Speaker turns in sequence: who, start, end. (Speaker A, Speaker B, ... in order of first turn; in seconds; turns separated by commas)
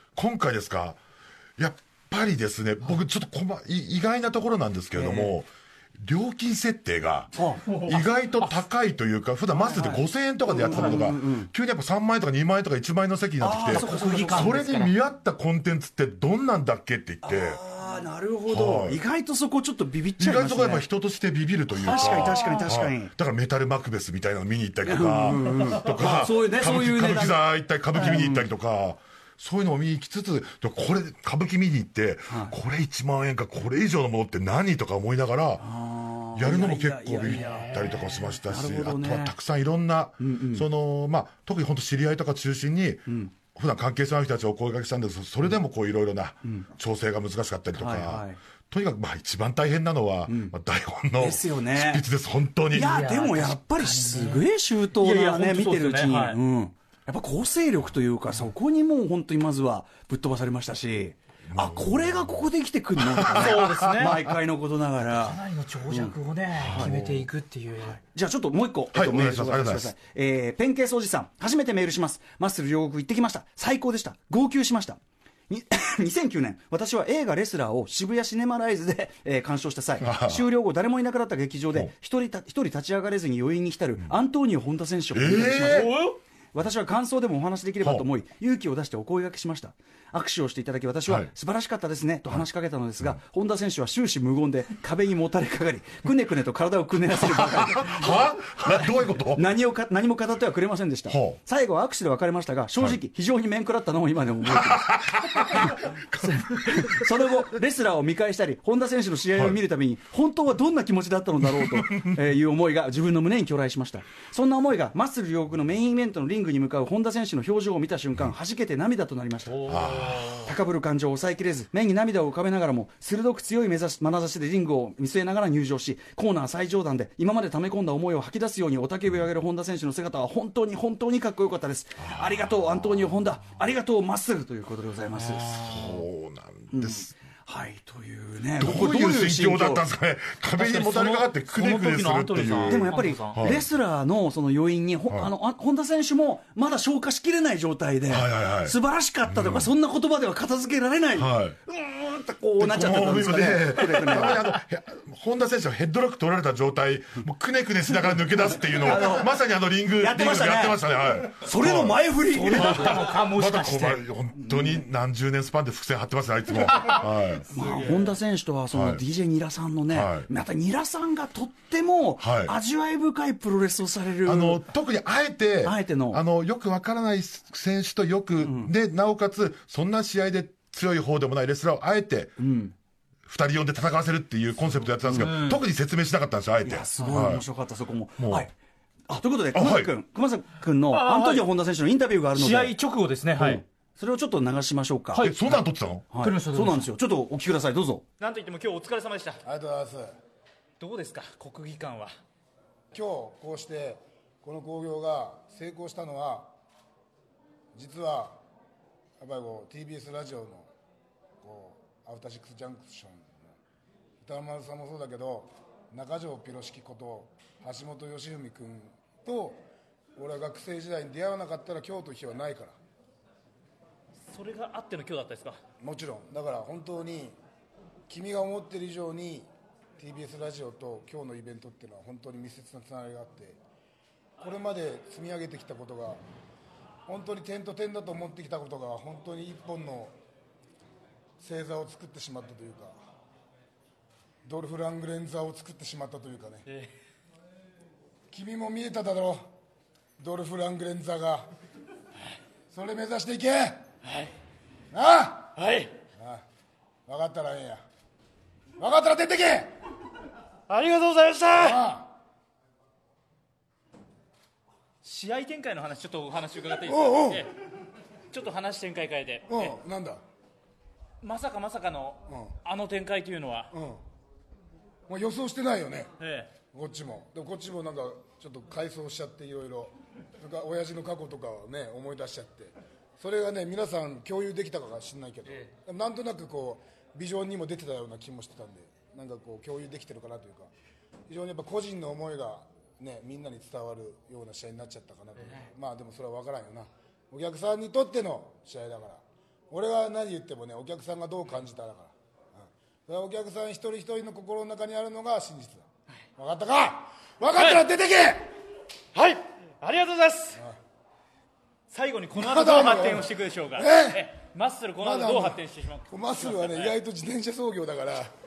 Speaker A: 0.1-1.0, Speaker A: 1.6-5.5, Speaker B: 4.9-5.4, Speaker A: 6.0-17.6, Speaker B: 7.3-7.6, Speaker C: 7.7-8.5, Speaker B: 9.6-11.5, Speaker C: 10.5-11.1, Speaker B: 13.4-14.8, Speaker C: 13.7-14.9, Speaker B: 17.2-20.9, Speaker A: 18.5-19.0, Speaker A: 20.2-35.7, Speaker B: 21.7-23.1, Speaker C: 21.8-22.7, Speaker B: 24.8-28.5, Speaker B: 32.3-32.5, Speaker B: 35.6-37.8, Speaker A: 36.3-52.9, Speaker C: 37.2-38.4, Speaker B: 38.4-39.4, Speaker B: 40.2-40.7, Speaker B: 47.7-48.4, Speaker B: 50.3-50.5, Speaker B: 51.2-52.0, Speaker B: 52.7-66.1, Speaker C: 52.7-56.4, Speaker A: 61.5-62.4, Speaker A: 63.0-64.1, Speaker C: 63.3-64.2, Speaker C: 65.1-68.0, Speaker A: 66.6-67.3, Speaker B: 66.7-67.0, Speaker B: 67.9-85.9, Speaker A: 68.9-69.9, Speaker A: 80.0-80.5, Speaker A: 85.1-85.9, Speaker C: 85.6-86.2, Speaker B: 86.5-119.8, Speaker A: 91.0-91.3, Speaker A: 97.2-99.4, Speaker A: 101.1-101.4, Speaker A: 104.5-107.1, Speaker A: 111.4-112.2, Speaker C: 119.5-120.5, Speaker A: 119.7-120.5, Speaker B: 120.4-136.0, Speaker A: 132.0-133.1, Speaker A: 135.2-137.1, Speaker B: 136.7-139.9, Speaker A: 138.6-143.7, Speaker C: 140.6-143.6, Speaker B: 142.7-154.5, Speaker A: 148.1-149.7, Speaker A: 151.1-151.6, Speaker A: 152.6-167.5, Speaker B: 158.7-159.4, Speaker B: 160.0-160.8, Speaker B: 161.4-163.2, Speaker C: 162.3-164.0, Speaker B: 164.4-164.8, Speaker C: 166.7-167.0, Speaker B: 167.4-174.7, Speaker C: 167.5-168.1, Speaker A: 168.7-169.0, Speaker A: 169.9-170.3, Speaker A: 172.2-172.5, Speaker A: 174.2-182.4, Speaker B: 175.6-176.2, Speaker B: 178.4-178.7, Speaker B: 182.4-182.7, Speaker A: 183.2-187.4, Speaker B: 185.0-185.3, Speaker C: 185.1-185.6, Speaker B: 186.6-188.5, Speaker A: 188.2-188.5, Speaker B: 189.1-192.7, Speaker A: 189.5-189.9, Speaker C: 190.9-191.5, Speaker C: 192.3-193.6, Speaker B: 193.3-195.3, Speaker C: 195.1-195.5, Speaker A: 195.2-196.1, Speaker B: 196.1-198.0, Speaker C: 196.2-196.9, Speaker C: 198.2-199.4, Speaker D: 199.4-200.1, Speaker C: 200.8-202.1, Speaker D: 202.9-206.5, Speaker D: 207.7-208.4, Speaker D: 209.2-210.7, Speaker D: 211.4-213.5, Speaker D: 214.2-219.6, Speaker D: 220.2-222.7, Speaker C: 224.3-225.6, Speaker D: 225.8-227.3, Speaker D: 228.1-233.6, Speaker D: 234.4-236.2, Speaker D: 237.1-240.1, Speaker D: 241.4-242.9, Speaker D: 244.4-246.6, Speaker D: 248.3-249.4, Speaker D: 250.2-251.5, Speaker D: 252.7-253.8, Speaker C: 254.0-254.3, Speaker D: 254.9-255.5, Speaker C: 255.6-255.9, Speaker D: 257.1-257.8, Speaker D: 258.8-259.7, Speaker C: 260.7-261.8, Speaker D: 261.5-262.1, Speaker C: 265.0-267.5, Speaker D: 266.9-267.4, Speaker C: 268.3-269.8, Speaker D: 269.5-270.2, Speaker C: 271.2-273.7, Speaker D: 272.3-272.5, Speaker D: 273.7-274.0, Speaker D: 275.1-276.1, Speaker C: 276.2-276.5, Speaker D: 276.7-290.7, Speaker D: 291.3-305.8, Speaker C: 295.4-295.7, Speaker D: 306.4-308.5, Speaker C: 307.6-307.8, Speaker C: 309.1-310.6, Speaker C: 311.9-317.0, Speaker D: 312.3-314.3, Speaker D: 315.0-318.3